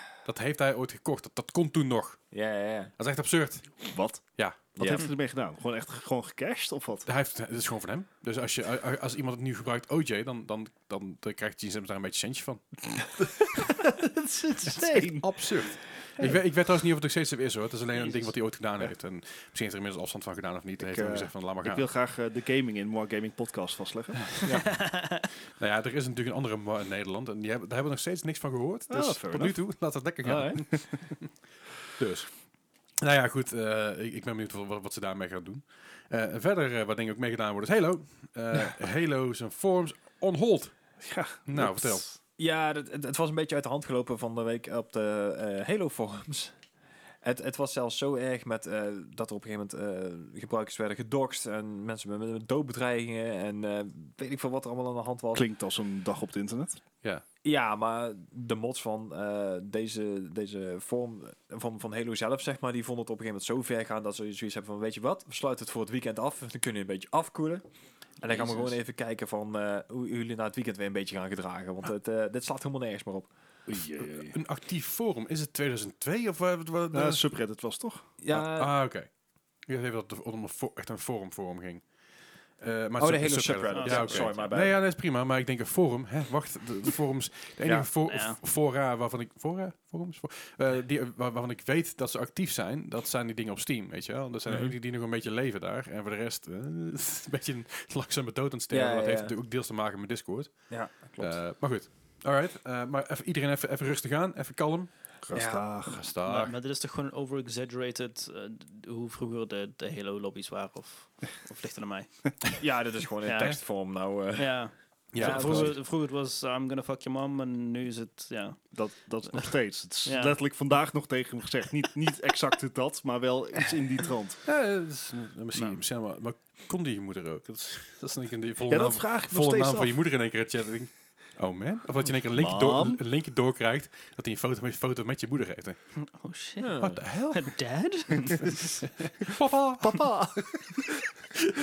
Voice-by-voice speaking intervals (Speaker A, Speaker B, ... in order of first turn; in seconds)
Speaker A: 0.2-2.3, 3.0-3.8, 7.0-13.6, 14.7-21.9, 25.6-31.3, 32.0-32.3, 33.0-40.7, 41.5-42.0, 74.0-77.3, 78.3-79.1, 79.7-81.8, 82.6-104.9, 105.8-106.5, 115.1-115.8, 124.4-135.8, 136.8-137.6, 138.8-140.1
Speaker B: 2.3-2.9, 4.8-5.1, 30.2-30.6, 42.4-46.6, 47.2-55.4, 57.4-67.6, 68.2-73.3, 78.2-78.7, 83.0-84.8, 87.6-87.9, 94.5-94.7, 98.7-99.3, 100.7-101.4, 105.3-105.7, 112.6-115.8, 136.6-137.0
Speaker C: 3.8-7.1, 13.6-15.5, 20.8-24.4, 28.9-29.6, 41.0-42.2, 55.3-56.8, 73.7-74.4, 76.9-78.0, 105.2-106.0, 118.7-124.4, 128.7-130.0, 132.3-133.0, 139.8-140.9
Speaker D: 17.9-18.3, 24.6-25.2, 83.7-84.5, 88.1-88.4, 106.2-112.6, 113.2-113.6, 114.3-118.7, 120.0-120.3, 136.0-138.8